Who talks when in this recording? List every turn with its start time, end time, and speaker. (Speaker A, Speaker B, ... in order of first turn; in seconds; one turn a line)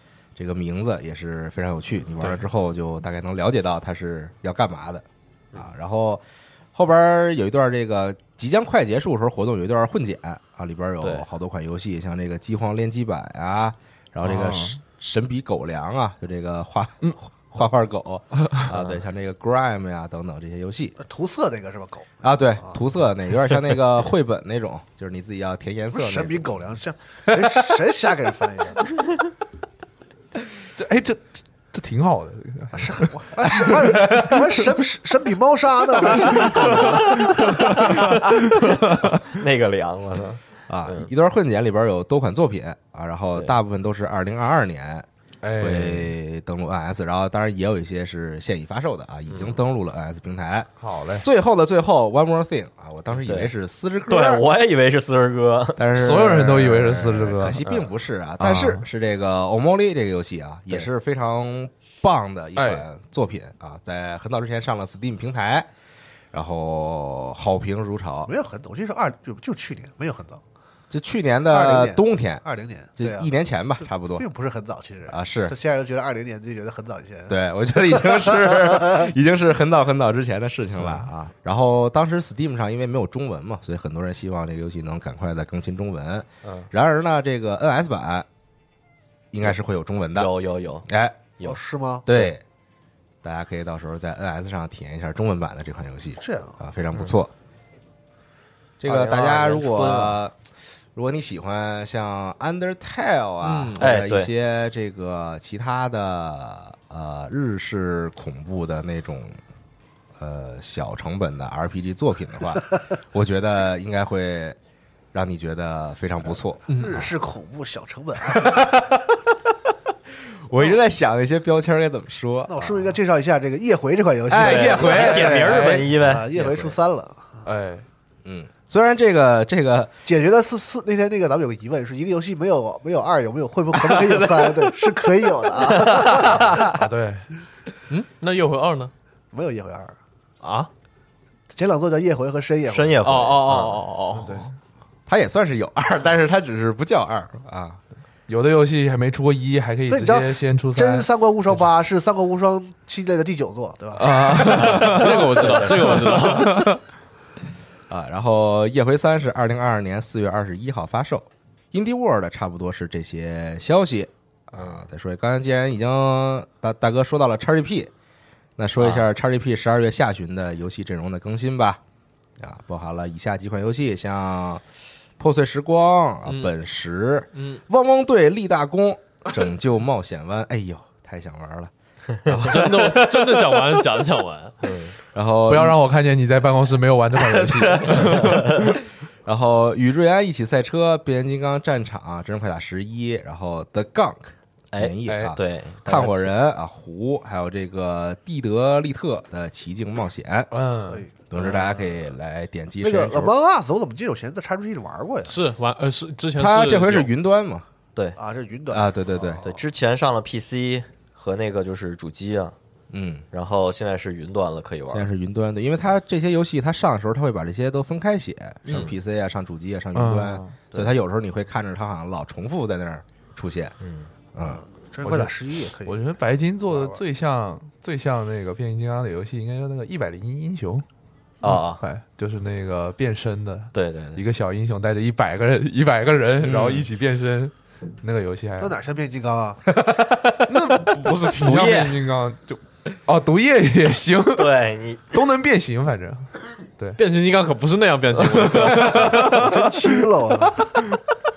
Speaker A: 0.4-6.2
Speaker A: 6.7-21.0
Speaker B: 11.0-11.3
Speaker C: 14.2-14.8
Speaker B: 18.7-19.0
Speaker D: 21.0-22.8
Speaker A: 22.2-26.5
Speaker D: 25.9-28.9
Speaker C: 30.8-34.6
Speaker D: 32.7-38.2
Speaker C: 36.2-39.1
Speaker B: 38.6-41.1
Speaker A: 40.7-45.1
Speaker C: 45.4-46.1
Speaker A: 45.6-54.4
Speaker B: 49.3-49.6
Speaker C: 50.8-51.3
Speaker B: 53.1-53.5
Speaker B: 54.1-55.8
Speaker A: 55.8-65.7
Speaker C: 55.9-57.8
Speaker C: 58.4-58.8
Speaker C: 62.6-62.9
Speaker A: 66.3-68.3
Speaker D: 68.2-70.4
Speaker A: 70.9-72.4
Speaker D: 71.5-73.3
Speaker A: 73.0-74.3
Speaker D: 74.1-79.1
Speaker A: 75.0-75.5
Speaker A: 77.3-88.3
Speaker B: 86.4-86.7
Speaker A: 89.3-90.3
Speaker B: 90.1-90.9
Speaker A: 90.8-91.2
Speaker D: 91.4-92.1
Speaker A: 92.0-92.4
Speaker A: 93.2-97.3
Speaker D: 96.2-96.6
Speaker A: 98.8-100.3
Speaker B: 98.8-100.2
Speaker A: 100.9-109.4
Speaker C: 103.4-103.8
Speaker B: 103.8-104.3
Speaker A: 110.2-114.6
Speaker A: 115.1-117.1
Speaker C: 116.7-117.1
Speaker D: 116.7-118.6
Speaker A: 118.2-119.2
Speaker A: 120.3-122.8
Speaker D: 122.5-127.5
Speaker A: 124.3-125.7
Speaker B: 124.3-126.2
Speaker C: 124.8-126.0
Speaker A: 126.3-126.7
Speaker C: 127.4-127.8
Speaker A: 128.2-129.9
Speaker D: 130.1-136.7
Speaker C: 136.6-137.3
Speaker E: 137.9-138.9
Speaker D: 139.3-139.9
Speaker E: 140.4-140.7
Speaker D: 141.5-143.1
Speaker B: 142.7-143.8
Speaker E: 143.0-144.5
Speaker C: 144.1-144.5
Speaker A: 145.1-147.8
Speaker C: 148.3-151.1
Speaker D: 149.9-156.7
Speaker C: 154.0-155.2
Speaker E: 154.6-156.7
Speaker C: 156.3-156.8
Speaker A: 157.9-167.9
Speaker B: 164.5-164.8
Speaker A: 168.6-171.8
Speaker B: 168.8-169.1
Speaker A: 172.4-174.6
Speaker A: 175.2-181.7
Speaker E: 176.3-176.5
Speaker E: 177.3-177.6
Speaker A: 182.3-183.6
Speaker E: 182.3-184.6
Speaker B: 184.6-184.9
Speaker A: 185.1-185.8
Speaker C: 185.5-188.8
Speaker B: 187.8-188.6
Speaker A: 189.2-200.5
Speaker B: 194.7-196.3
Speaker C: 195.1-195.4
Speaker C: 200.5-201.1
Speaker D: 200.9-202.1
Speaker A: 201.3-203.3
Speaker D: 202.8-205.4
Speaker E: 205.2-207.1
Speaker A: 206.3-207.7
Speaker D: 208.2-209.6
Speaker A: 208.7-209.4
Speaker B: 209.4-212.5
Speaker A: 212.9-213.2
Speaker B: 213.3-215.1
Speaker A: 214.9-223.7
Speaker B: 218.7-218.9
Speaker C: 219.9-220.6
Speaker B: 223.8-224.1
Speaker A: 224.3-225.2
Speaker D: 224.4-226.0
Speaker C: 225.8-230.8
Speaker D: 226.7-227.0
Speaker B: 231.4-231.8
Speaker C: 231.4-238.8
Speaker B: 233.7-234.2
Speaker A: 236.4-236.8
Speaker D: 238.6-239.6
Speaker C: 240.4-247.0
Speaker B: 241.4-242.0
Speaker B: 244.3-245.2
Speaker E: 246.9-249.3
Speaker C: 248.2-249.9
Speaker D: 249.2-250.7